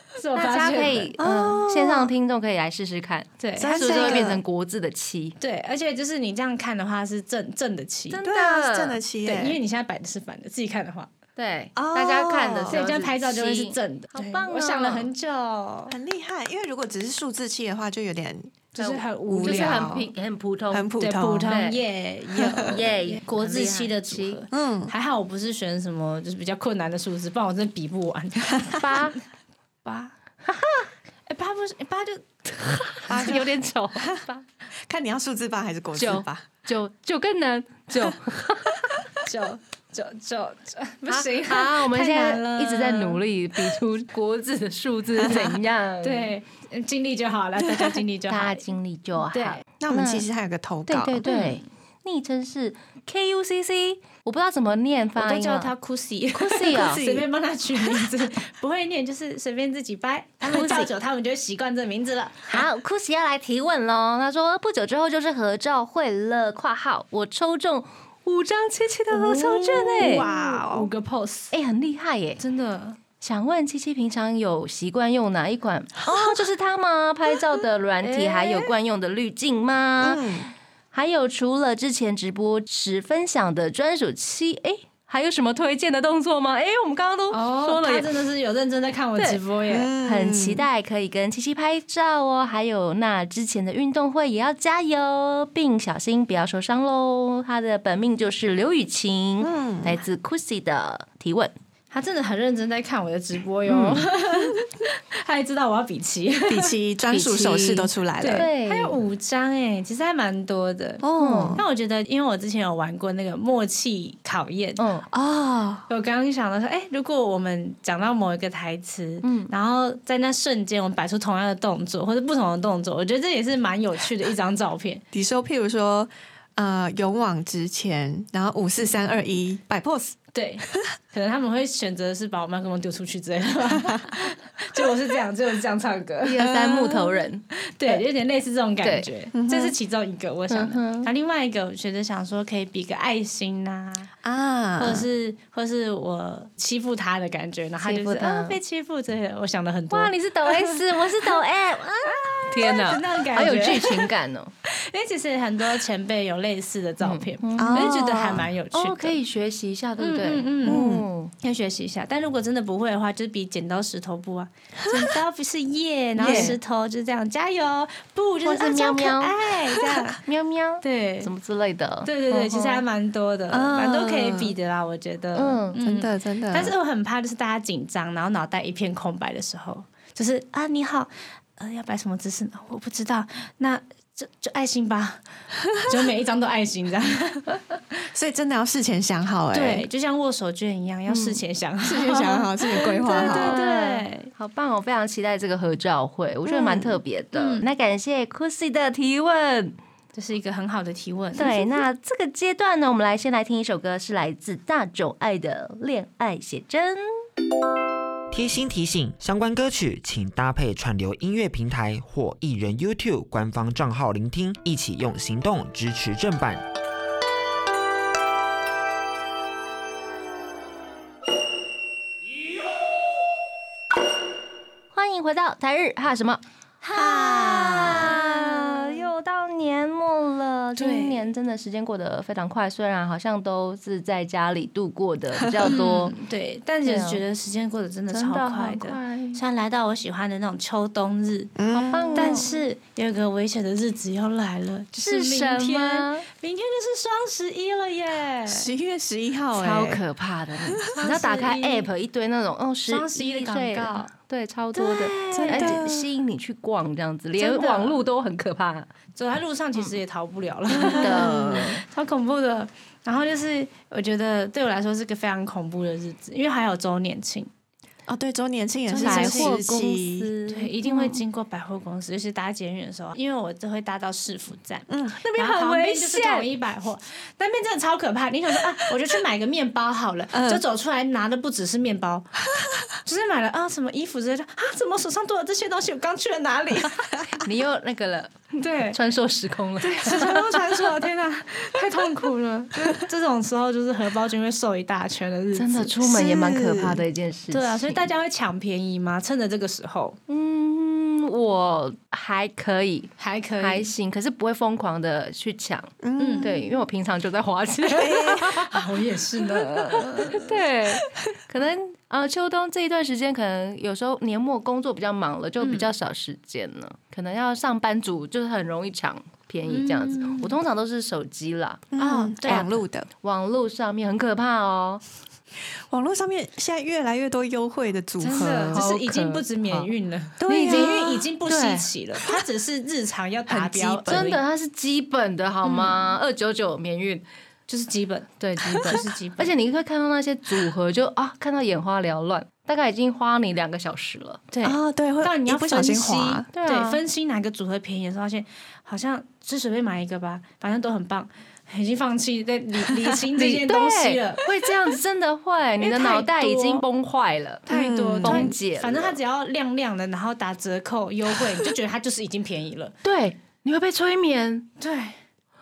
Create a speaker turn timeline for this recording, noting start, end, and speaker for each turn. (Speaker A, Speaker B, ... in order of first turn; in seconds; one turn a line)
Speaker A: 0.1-1.1
Speaker B: 0.3-5.3
Speaker C: 1.2-2.1
Speaker A: 3.4-4.3
Speaker C: 3.6-4.4
Speaker A: 5.4-8.2
Speaker B: 8.1-9.0
Speaker C: 8.2-9.6
Speaker A: 9.2-11.1
Speaker B: 11.3-15.1
Speaker C: 11.7-12.9
Speaker A: 12.7-15.9
Speaker C: 15.9-18.6
Speaker A: 18.7-20.1
Speaker B: 18.8-21.8
Speaker C: 19.2-19.9
Speaker C: 20.7-21.6
Speaker A: 21.0-29.1
Speaker C: 22.3-22.7
Speaker B: 22.6-24.4
Speaker C: 24.5-24.9
Speaker B: 28.8-29.2
Speaker A: 29.8-30.1
Speaker B: 30.5-30.9
Speaker A: 31.3-33.3
Speaker B: 32.6-34.4
Speaker C: 33.1-33.5
Speaker C: 34.9-36.5
Speaker B: 35.9-39.1
Speaker A: 39.2-43.7
Speaker B: 41.1-46.3
Speaker C: 45.2-45.6
Speaker A: 46.0-48.6
Speaker B: 48.3-50.2
Speaker A: 49.2-49.6
Speaker C: 49.8-51.3
Speaker B: 50.9-55.7
Speaker A: 51.2-51.6
Speaker A: 55.1-62.6
Speaker B: 56.3-57.1
Speaker C: 56.8-57.2
Speaker C: 60.4-60.9
Speaker B: 60.5-60.8
Speaker B: 62.5-70.2
Speaker A: 69.1-71.5
Speaker C: 70.0-70.9
Speaker B: 71.5-72.4
Speaker A: 72.4-73.0
Speaker B: 73.2-80.3
Speaker C: 76.1-76.4
Speaker A: 78.0-78.7
Speaker C: 80.0-80.5
Speaker B: 80.9-88.1
Speaker A: 87.3-89.9
Speaker C: 89.7-90.6
Speaker B: 90.0-101.5
Speaker C: 99.4-100.0
Speaker A: 101.9-106.7
Speaker B: 103.7-104.1
Speaker C: 106.5-108.5
Speaker B: 107.1-109.0
Speaker A: 108.2-111.0
Speaker C: 111.0-111.6
Speaker B: 111.1-111.6
Speaker A: 111.5-114.9
Speaker B: 114.8-115.0
Speaker C: 115.1-115.8
Speaker A: 115.9-125.0
Speaker B: 119.2-119.5
Speaker C: 125.1-130.2
Speaker A: 130.3-136.5
Speaker C: 133.7-134.1
Speaker B: 136.2-137.4
Speaker C: 136.4-137.2
Speaker A: 137.6-144.1
Speaker C: 139.3-139.7
Speaker B: 140.5-141.1
Speaker C: 144.2-145.1
Speaker A: 144.8-151.4
Speaker B: 147.8-148.6
Speaker B: 149.9-154.5
Speaker A: 152.0-154.1
Speaker A: 154.6-159.2
Speaker B: 157.0-158.0
Speaker C: 157.6-158.5
Speaker B: 158.7-161.3
Speaker A: 160.0-160.8
Speaker C: 160.6-161.1
Speaker A: 161.4-170.2
Speaker C: 164.8-165.1
Speaker C: 166.2-166.6
Speaker B: 166.2-166.6
Speaker B: 168.4-169.4
Speaker B: 170.2-172.8
Speaker A: 170.8-171.3
Speaker A: 172.0-187.6
Speaker C: 173.5-174.5
Speaker B: 175.3-175.8
Speaker C: 175.8-176.7
Speaker C: 188.1-189.8
Speaker A: 189.5-194.3
Speaker B: 191.1-191.4
Speaker C: 191.8-193.6
Speaker B: 192.9-199.7
Speaker C: 196.4-197.0
Speaker A: 197.3-197.6
Speaker A: 200.1-201.8
Speaker B: 201.3-207.2
Speaker D: 208.3-216.6
Speaker B: 224.9-236.1
Speaker C: 226.9-228.5
Speaker A: 227.8-228.2
Speaker A: 230.8-231.2
Speaker C: 235.4-235.7
Speaker A: 235.6-241.5
Speaker B: 236.8-237.2
Speaker B: 238.1-239.4
Speaker C: 241.6-242.4
Speaker B: 241.7-242.5
Speaker A: 242.1-248.7
Speaker B: 245.0-246.2
Speaker C: 248.5-250.0
Speaker B: 249.5-258.9
Speaker C: 250.6-250.9
Speaker A: 250.9-251.9
Speaker A: 252.9-254.1
Speaker A: 254.7-255.8
Speaker C: 255.3-256.1
Speaker A: 257.4-258.0
Speaker A: 259.1-267.5
Speaker C: 260.7-261.7
Speaker B: 260.8-261.8
Speaker C: 268.1-270.3
Speaker B: 268.9-271.2
Speaker A: 269.0-269.6
Speaker A: 270.5-282.3
Speaker C: 274.9-275.2
Speaker B: 275.2-276.5
Speaker C: 280.3-280.6
Speaker A: 283.0-287.2
Speaker B: 287.2-290.9
Speaker A: 288.6-289.0
Speaker A: 289.8-296.0
Speaker B: 295.5-298.0
Speaker C: 296.0-297.0
Speaker A: 297.5-300.2
Speaker B: 300.3-308.8
Speaker A: 303.2-303.9
Speaker C: 306.0-306.6
Speaker A: 306.2-306.5
Speaker C: 307.9-308.6
Speaker A: 308.1-310.6
Speaker B: 309.4-321.8
Speaker A: 315.6-315.9
Speaker A: 319.6-320.5
Speaker C: 321.9-323.1
Speaker A: 322.0-322.6
Speaker B: 322.5-325.0
Speaker C: 325.8-328.9
Speaker A: 328.2-334.4
Speaker B: 328.3-329.4
Speaker C: 330.4-331.2
Speaker B: 330.5-331.9
Speaker C: 333.5-334.3
Speaker B: 334.1-337.2
Speaker A: 335.6-336.1
Speaker A: 337.7-339.5
Speaker B: 338.4-344.4
Speaker A: 344.5-354.5
Speaker C: 344.6-346.5
Speaker B: 346.5-347.0
Speaker B: 353.3-357.7
Speaker A: 355.8-356.8
Speaker A: 357.7-362.9
Speaker C: 357.7-358.5
Speaker B: 358.2-359.1
Speaker B: 363.0-364.7
Speaker A: 364.8-365.2